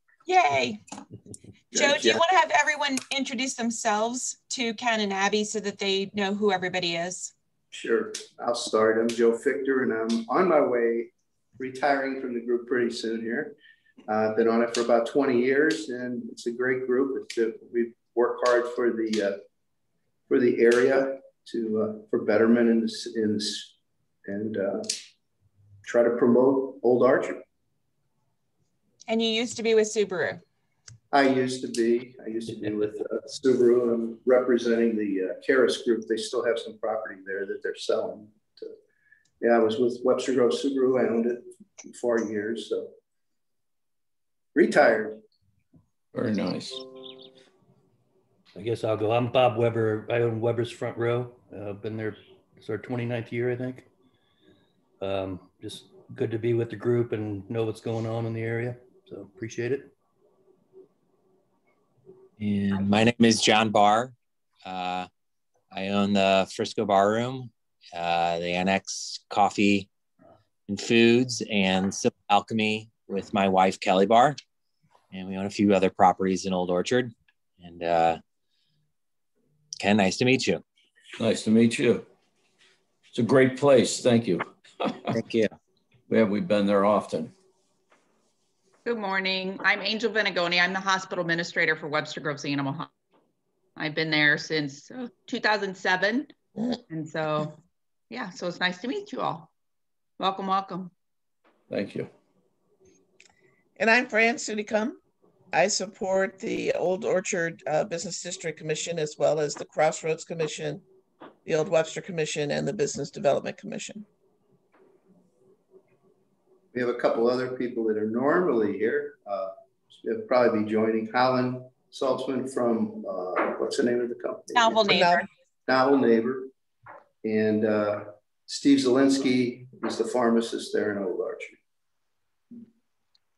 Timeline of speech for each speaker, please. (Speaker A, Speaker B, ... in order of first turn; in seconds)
Speaker A: 0.3-0.8, 1.7-7.3, 29.1-30.4, 124.5-125.3
Speaker B: 1.7-2.2, 7.7-13.6, 14.1-19.4, 20.3-23.7, 24.3-24.9, 25.9-27.4, 31.1-38.7, 39.4-42.9, 44.5-45.2, 116.7-124.8, 125.7-126.5, 127.2-131.6
Speaker C: 46.1-46.9, 81.2-82.1, 83.1-85.2, 86.1-87.3, 101.7-102.1
Speaker D: 48.5-53.9, 55.0-59.9
Speaker E: 62.4-65.1, 65.7-69.9, 70.7-74.4, 75.1-78.2, 79.8-80.6, 85.1-85.5
Speaker F: 88.8-92.9, 93.8-96.3, 96.9-97.6, 98.1-99.5, 100.2-100.9
Speaker G: 103.8-105.0, 105.5-110.8, 111.5-114.1, 124.8-125.2